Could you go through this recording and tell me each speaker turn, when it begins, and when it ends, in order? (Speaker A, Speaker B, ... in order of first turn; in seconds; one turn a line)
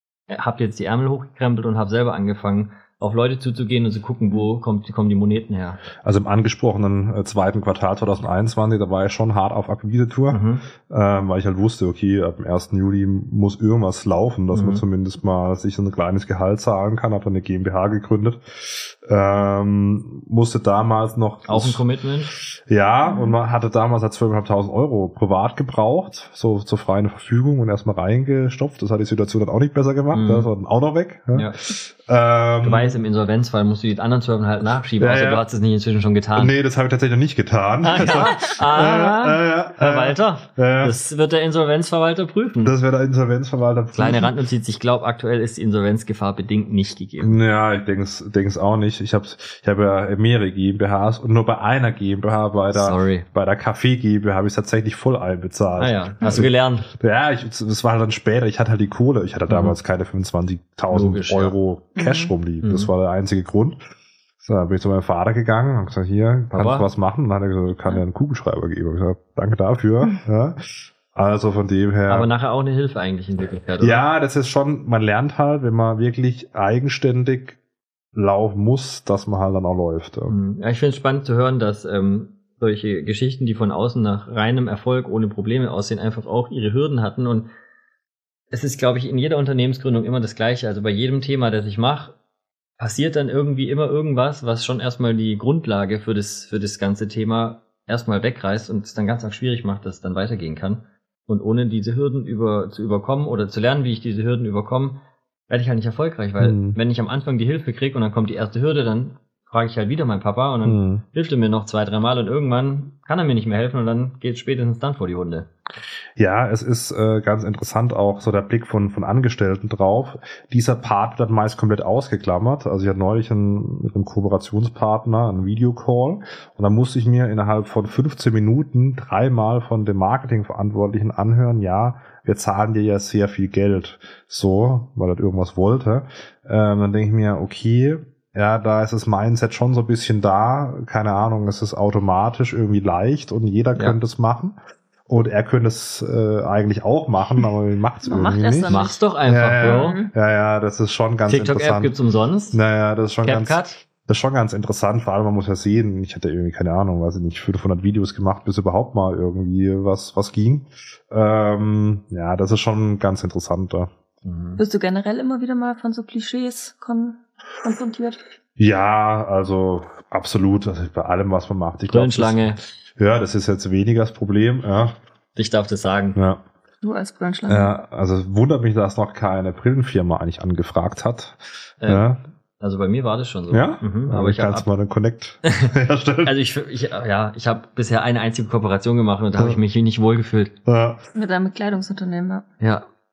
Speaker A: 0.3-5.8
Speaker B: 6.0-21.8
Speaker A: 10.3-10.6
Speaker A: 14.5-14.8
Speaker A: 21.5-22.3
Speaker B: 22.4-33.0
Speaker C: 23.1-23.4
Speaker A: 30.1-30.5
Speaker A: 31.3-31.6
Speaker A: 32.6-36.5
Speaker B: 35.0-35.4
Speaker B: 36.4-41.0
Speaker A: 37.8-42.7
Speaker B: 42.6-44.3
Speaker A: 44.0-47.4
Speaker B: 47.2-63.8
Speaker A: 52.7-53.3
Speaker A: 55.8-56.9
Speaker A: 59.5-59.8
Speaker A: 60.9-61.6
Speaker C: 62.0-62.3
Speaker A: 62.6-62.9
Speaker B: 64.4-72.3
Speaker A: 66.5-66.9
Speaker A: 72.1-74.0
Speaker B: 73.8-77.6
Speaker B: 78.2-80.4
Speaker A: 80.3-87.5
Speaker A: 88.5-92.2
Speaker A: 92.8-105.0
Speaker A: 105.5-115.5
Speaker B: 106.4-106.8
Speaker B: 110.7-111.0
Speaker B: 116.2-144.6
Speaker B: 145.1-151.9
Speaker C: 148.0-149.0
Speaker A: 148.7-150.0
Speaker C: 149.6-150.1
Speaker A: 151.3-152.6
Speaker B: 152.5-163.9
Speaker A: 153.2-153.8
Speaker A: 164.2-164.6
Speaker C: 164.6-168.2
Speaker B: 168.6-175.0
Speaker A: 171.9-172.6
Speaker A: 175.4-176.2
Speaker B: 176.2-176.4
Speaker C: 176.8-177.8
Speaker B: 177.5-182.2
Speaker A: 181.8-182.1
Speaker A: 182.6-184.7
Speaker B: 183.5-186.3
Speaker A: 185.4-185.7
Speaker A: 186.2-190.6
Speaker B: 190.7-191.0
Speaker C: 191.2-192.4
Speaker A: 192.6-192.9